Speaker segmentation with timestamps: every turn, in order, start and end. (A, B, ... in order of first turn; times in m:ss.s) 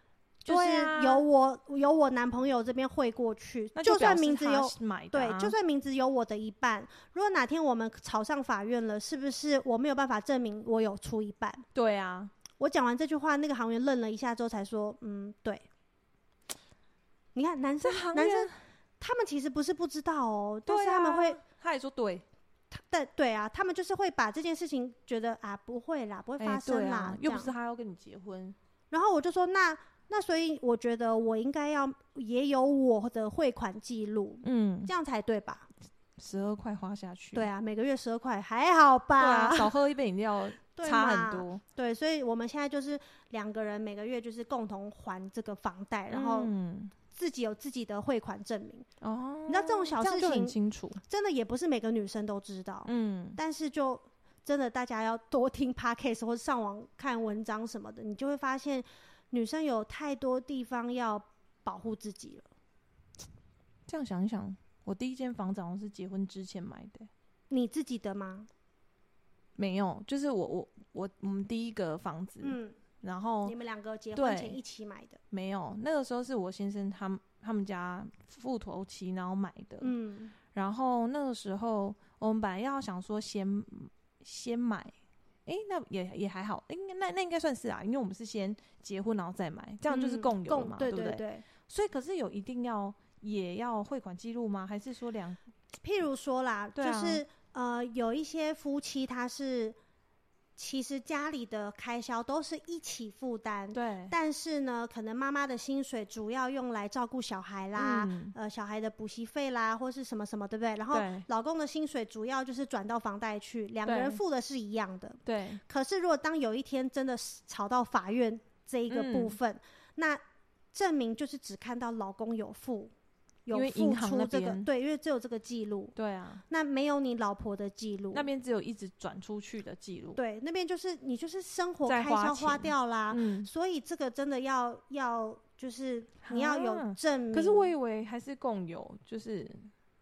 0:00.4-0:11.6 A
0:00.5-0:01.2 B
0:03.8-0:05.6 B
0:11.8-0:12.3 B
0:12.6-0:15.6 A
0:17.4-0:21.4 A
0:17.8-0:18.6 B
0:20.7-0:22.2 B
0:22.7-0:27.5 A
0:26.4-0:28.6 B
0:28.9-0:35.7 A
0:34.4-0:34.9 B
0:36.2-0:37.5 B
0:37.3-0:39.7 A
0:39.2-0:41.6 B
0:40.8-0:46.5 A
0:46.1-0:47.0 B
0:47.1-0:48.9 A
0:49.0-0:51.0 B
0:49.5-1:02.5 A
0:52.8-0:53.4 B
1:03.9-1:07.1 B
1:07.5-1:08.5 A
1:09.6-1:13.6 B
1:12.4-1:12.8 A
1:13.4-1:15.2 A
1:14.1-1:14.6 B
1:15.3-1:20.0 B
1:19.8-1:20.3 A
1:20.5-1:24.9 B
1:25.5-1:35.4 B
1:29.9-1:31.4 A
1:35.8-1:39.8 A
1:36.8-1:37.2 B
1:40.6-2:00.2 A
1:43.7-1:44.1 B
1:47.8-1:48.4 B
1:50.9-1:51.3 B
1:53.8-1:54.2 B
1:55.3-1:55.6 B
1:58.9-1:59.4 B
2:00.7-2:02.9 A
2:03.5-2:05.9 A
2:03.5-2:04.7 B
2:06.0-2:06.4 B
2:06.5-2:08.3 A
2:08.1-2:10.2 B
2:10.2-2:17.7 A
2:11.8-2:13.5 B
2:16.2-2:19.7 B